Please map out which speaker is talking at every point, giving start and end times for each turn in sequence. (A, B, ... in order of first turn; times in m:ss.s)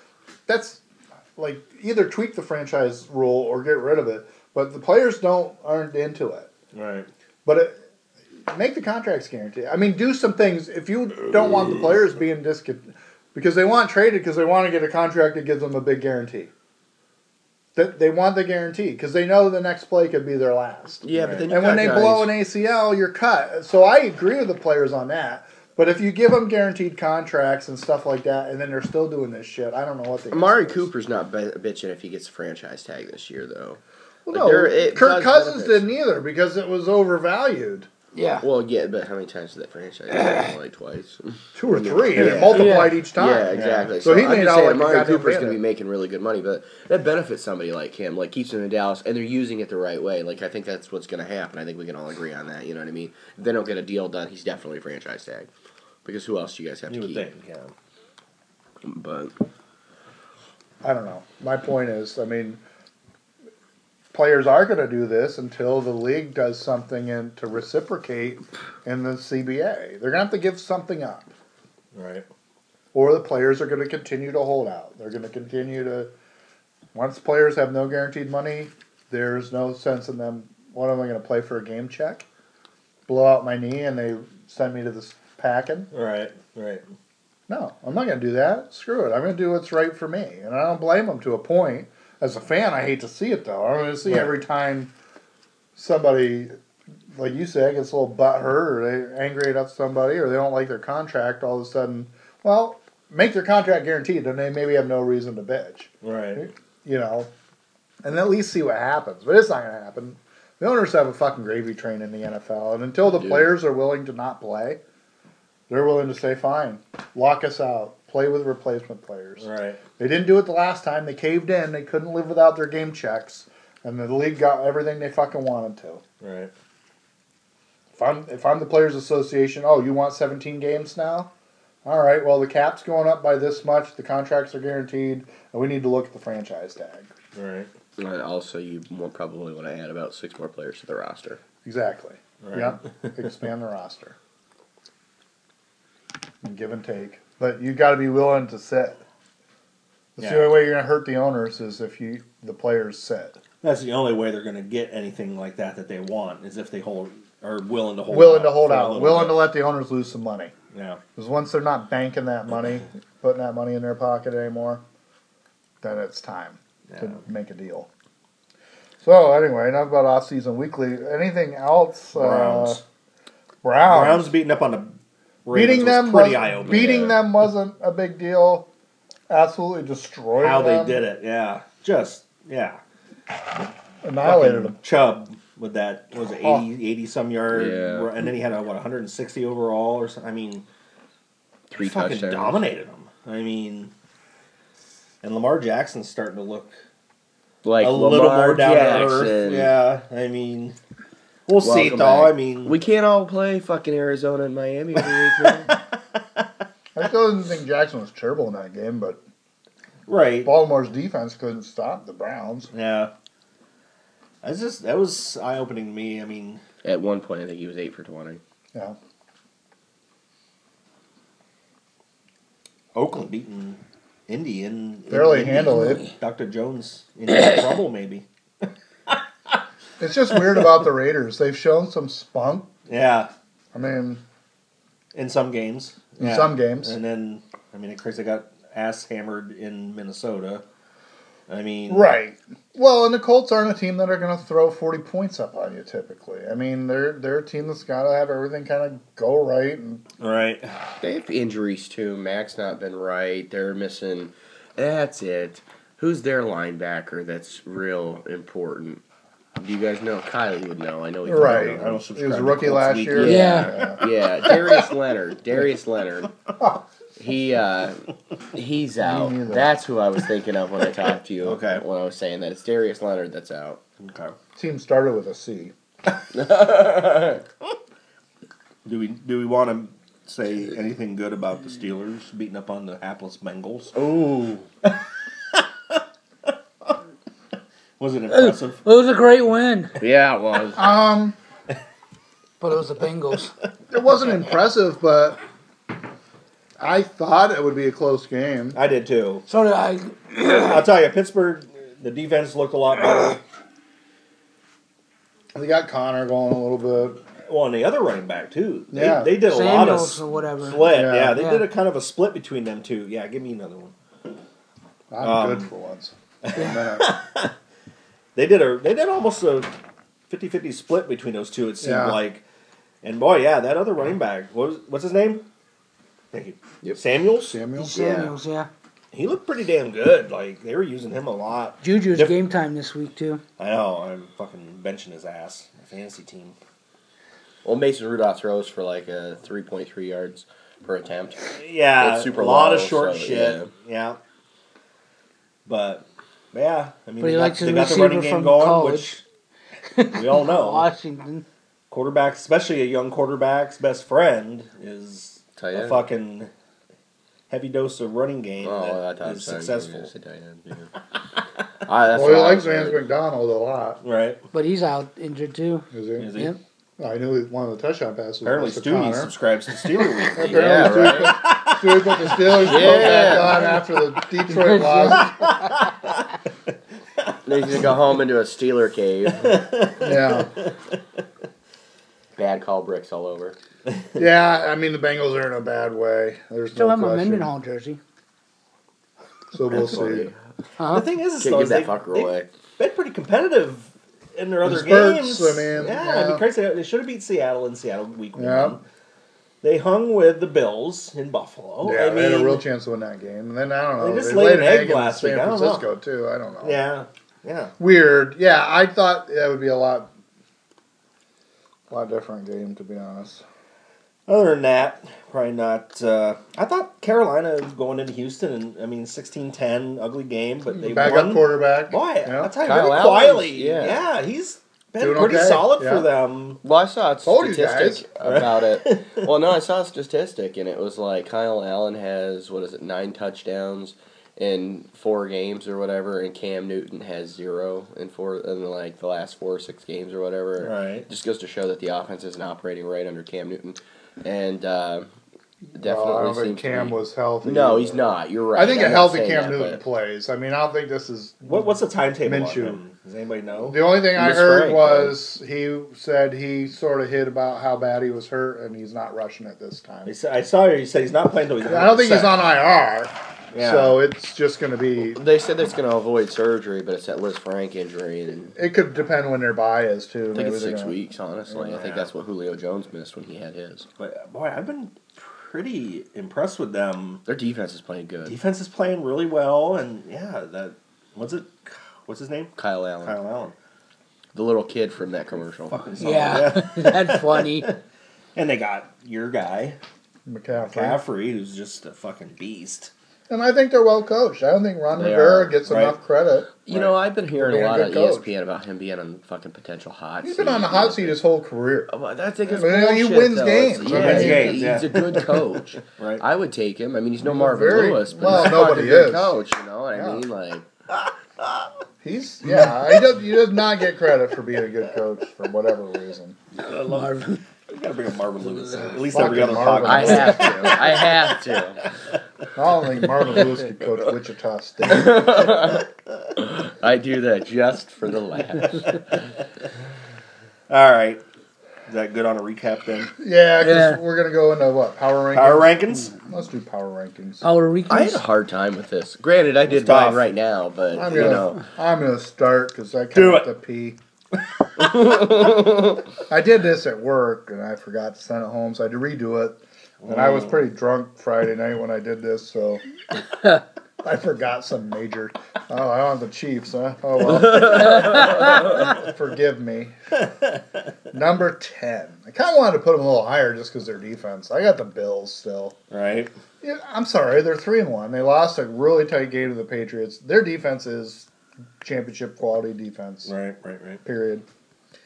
0:00.5-0:00.8 A
0:01.4-0:06.5 A
0:06.7-0:07.1 B
0:07.4-0:07.8 A
0:08.5-0:16.5 A
0:17.8-0:30.9 A
0:21.0-0:22.3 C
0:21.1-0:21.5 B
0:30.3-0:35.8 C
0:34.3-0:37.9 A
0:38.1-0:38.4 D
0:38.4-0:55.5 C
0:40.1-0:40.5 D
0:41.6-0:45.6 A
0:42.5-0:43.0 D
0:43.5-0:44.0 B
0:56.0-0:57.2 C
0:56.9-0:57.7 B
0:58.8-0:59.4 C
1:00.8-1:02.6 A
1:04.1-1:11.3 A
1:11.9-1:12.3 B
1:12.9-1:16.1 A
1:16.9-1:22.3 A
1:23.1-1:25.9 A
1:25.9-1:26.8 B
1:27.5-1:34.9 A
1:34.0-1:34.3 B
1:35.8-1:36.5 A
1:37.1-1:47.3 A
1:46.0-1:46.4 B
1:48.0-1:54.8 A
1:53.1-1:53.5 C
1:55.7-1:59.5 A
1:59.4-1:59.8 B
2:00.0-2:06.0 A
2:06.2-2:06.5 B
2:07.9-2:11.3 A
2:11.8-2:17.1 A
2:17.3-2:17.7 B
2:18.0-2:21.4 C
2:21.6-2:24.2 A
2:22.4-2:22.8 B
2:26.4-2:29.0 A
2:30.2-2:33.4 A
2:30.2-2:30.6 B
2:33.6-2:39.5 B
2:38.1-2:40.5 A
2:40.7-2:41.0 B
2:41.2-2:44.8 A
2:45.8-2:47.9 A
2:46.9-2:47.2 B
2:49.0-2:52.8 A
2:52.2-2:52.8 B
2:53.6-2:54.3 A
2:53.8-2:57.2 B
2:55.5-2:58.7 A
2:59.3-3:01.0 A
3:00.4-3:02.8 B
3:04.0-3:04.8 A
3:04.2-3:10.6 B
3:06.3-3:06.6 A
3:07.5-3:08.1 C
3:11.7-3:12.6 C
3:11.8-3:13.9 B
3:15.2-3:16.8 B
3:17.6-3:19.7 C
3:17.8-3:20.8 B
3:21.5-3:22.8 B
3:21.6-3:25.8 C
3:25.0-3:26.5 B
3:27.0-3:29.2 A
3:30.1-3:30.5 B
3:30.4-3:32.7 A
3:32.7-3:33.1 B
3:34.4-3:36.6 B
3:36.8-3:38.4 C
3:42.9-3:49.6 B
3:45.1-3:46.0 A
3:50.0-3:52.7 A
3:52.9-3:53.3 B
3:53.7-3:54.2 A
3:55.1-4:00.6 B
3:56.2-3:57.0 A
4:01.5-4:02.1 B
4:01.9-4:10.0 A
4:10.2-4:10.8 B
4:11.0-4:19.0 C
4:19.6-4:22.0 C
4:21.3-4:24.0 A
4:21.4-4:24.8 B
4:23.1-4:26.3 C
4:23.3-4:23.7 D
4:27.2-4:33.8 C
4:29.0-4:29.7 A
4:31.4-4:31.8 B
4:34.0-4:34.4 B
4:34.6-4:35.7 A
4:36.3-4:37.4 C
4:38.8-4:44.0 B
4:44.0-4:44.7 C
4:45.5-4:46.5 B
4:48.0-4:48.8 B
4:48.3-4:50.0 D
4:50.0-4:50.8 C
4:50.8-4:51.4 A
4:52.6-4:53.5 D
4:53.9-4:55.4 A
4:56.8-4:58.8 A
4:58.8-4:59.4 B
4:59.5-5:00.8 D
5:00.6-5:03.4 B
5:05.6-5:07.2 A
5:07.5-5:13.9 B
5:08.9-5:09.4 A
5:09.4-5:11.7 D
5:10.9-5:11.4 A
5:15.1-5:17.1 A
5:15.2-5:15.7 B
5:16.4-5:17.5 B
5:18.4-5:19.7 B
5:20.3-5:22.4 B
5:21.8-5:22.2 A
5:23.0-5:25.5 B
5:26.3-5:27.6 B
5:27.4-5:28.0 A
5:27.8-5:28.7 D
5:27.9-5:28.3 C
5:29.1-5:32.4 B
5:31.8-5:33.4 D
5:33.6-5:36.6 B
5:37.6-5:41.5 C
5:41.5-5:44.2 B
5:42.0-5:43.7 C
5:45.6-5:49.2 B
5:47.2-5:49.1 D
5:50.0-5:51.4 D
5:50.1-5:50.9 B
5:51.9-5:56.5 B
5:55.6-5:56.0 C
5:57.5-6:00.1 B
5:58.6-6:01.0 C
6:01.8-6:03.0 C
6:02.1-6:04.0 A
6:04.0-6:04.4 B
6:04.5-6:06.6 D
6:05.9-6:06.3 A
6:06.2-6:06.5 B
6:07.0-6:09.3 A
6:08.4-6:13.6 B
6:10.3-6:15.3 A
6:10.5-6:11.4 C
6:12.6-6:13.7 C
6:14.5-6:15.7 D
6:15.2-6:16.2 B
6:17.4-6:19.6 C
6:19.4-6:21.0 B
6:20.0-6:20.5 A
6:22.4-6:23.6 C
6:23.9-6:24.2 B
6:24.2-6:27.5 A
6:26.8-6:28.0 D
6:29.5-6:30.3 A
6:29.7-6:30.4 C
6:30.8-6:31.1 D
6:30.8-6:38.8 B
6:31.4-6:32.5 C
6:34.6-6:36.4 A
6:38.4-6:38.8 A
6:39.6-6:42.7 B
6:41.8-6:46.8 A
6:44.0-6:45.9 B
6:46.6-6:47.7 B
6:47.8-6:50.1 A
6:51.9-6:53.4 A
6:54.3-7:06.6 B
7:00.7-7:02.5 A
7:02.6-7:04.0 C
7:05.0-7:06.1 A
7:06.6-7:25.1 C
7:07.2-7:08.1 A
7:08.2-7:09.3 B
7:20.6-7:21.1 B
7:25.8-7:29.8 C
7:25.8-7:31.7 A
7:31.4-7:35.2 B
7:32.2-7:32.8 A
7:33.7-7:40.1 A
7:40.1-7:42.4 B
7:41.7-7:45.2 A
7:43.5-7:44.0 B
7:45.1-7:48.6 C
7:48.6-7:51.0 A
7:50.3-7:53.9 C
7:51.7-7:52.1 B
7:54.0-7:57.2 B
7:57.3-7:58.4 C
7:58.3-8:02.5 B
8:02.6-8:03.2 C
8:03.0-8:03.6 B
8:04.3-8:05.8 C
8:05.7-8:07.8 B
8:06.0-8:07.7 D
8:08.4-8:09.8 B
8:10.3-8:11.0 A
8:10.6-8:12.9 B
8:13.3-8:16.6 A
8:14.9-8:15.6 C
8:15.7-8:16.0 B
8:16.7-8:21.2 C
8:17.4-8:18.3 A
8:20.2-8:21.9 A
8:21.9-8:30.7 C
8:22.5-8:24.8 A
8:23.9-8:25.4 B
8:25.9-8:26.2 B
8:27.2-8:29.4 A
8:30.0-8:30.2 A
8:30.9-8:31.6 B
8:32.0-8:36.4 A
8:36.6-8:37.4 D
8:37.7-8:41.4 B
8:39.0-8:40.8 A
8:39.5-8:41.8 C
8:42.6-8:45.5 A
8:43.0-8:43.3 B
8:44.9-8:45.9 C
8:46.4-8:49.3 C
8:50.7-8:51.2 B
8:51.9-8:53.1 B
8:53.2-8:57.5 A
8:53.6-8:54.0 D
8:55.3-8:56.1 B
8:57.4-8:58.2 D
8:57.9-9:01.6 C
8:59.8-9:00.3 B
9:00.9-9:04.0 A
9:03.1-9:03.5 B
9:04.8-9:06.0 C
9:06.3-9:12.8 A
9:10.0-9:10.6 B
9:14.0-9:20.0 A
9:17.5-9:18.5 C
9:20.2-9:20.6 B
9:21.1-9:25.8 A
9:25.9-9:26.4 B
9:26.6-9:31.3 A
9:31.8-9:33.3 A
9:33.3-9:34.0 B
9:34.0-9:34.4 A